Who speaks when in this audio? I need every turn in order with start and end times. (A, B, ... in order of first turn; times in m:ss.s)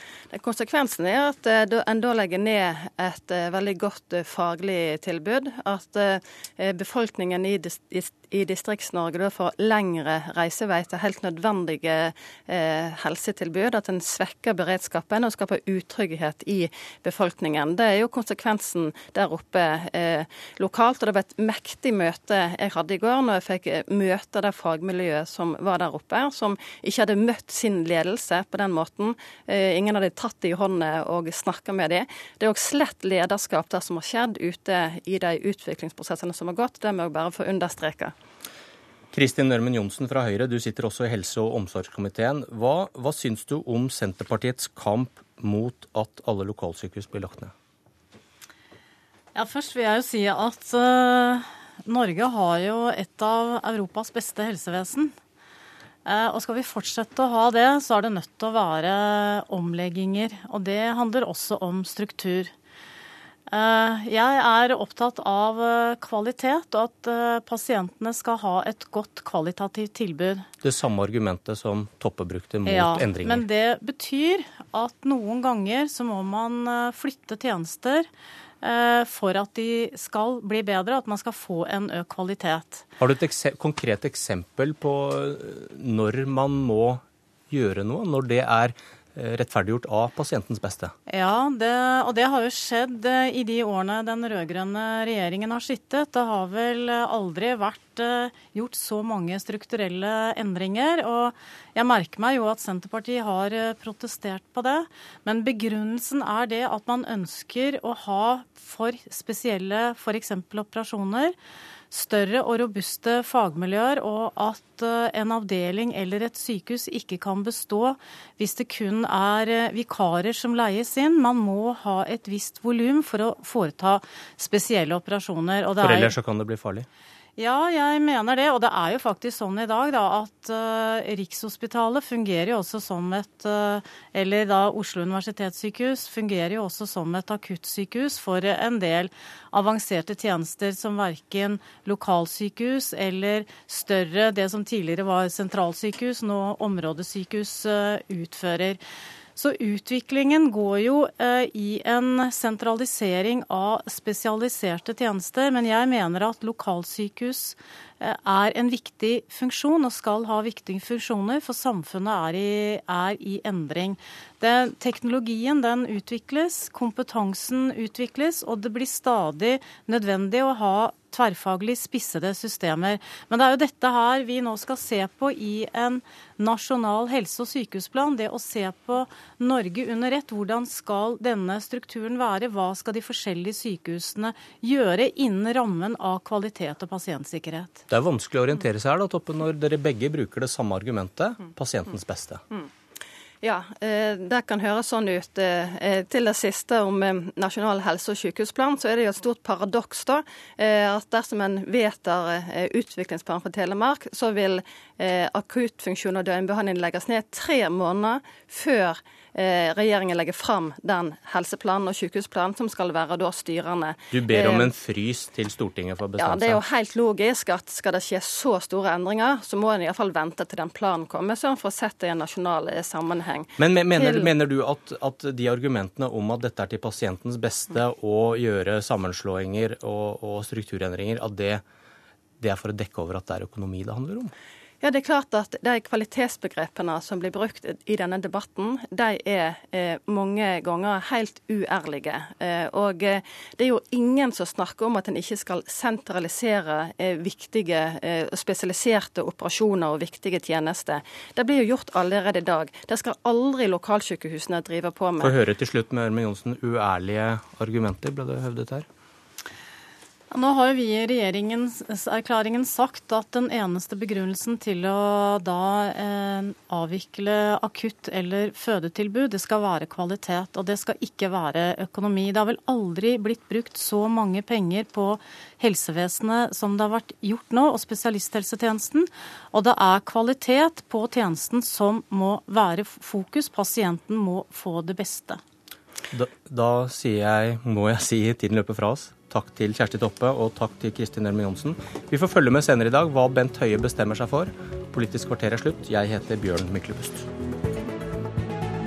0:00.3-0:38.1 A
0:39.1-0:47.5 B
0:49.4-0:55.1 C
0:56.0-1:02.5 C
1:03.5-1:10.4 C
1:10.6-1:13.4 B
1:12.6-1:18.1 C
1:18.6-1:22.9 C
1:23.0-1:30.9 B
1:31.1-1:51.4 C
1:51.9-2:06.1 C
2:05.8-2:06.9 B
2:07.4-2:28.8 C
2:29.4-3:07.8 C
3:07.9-3:12.4 B
3:13.4-3:34.7 A
3:34.1-3:36.6 B
3:36.2-3:44.3 A
3:43.6-3:51.6 B
3:52.4-3:54.3 B
3:54.8-4:15.4 A
4:15.2-4:18.9 B
4:20.3-4:45.4 C
4:46.1-4:57.2 B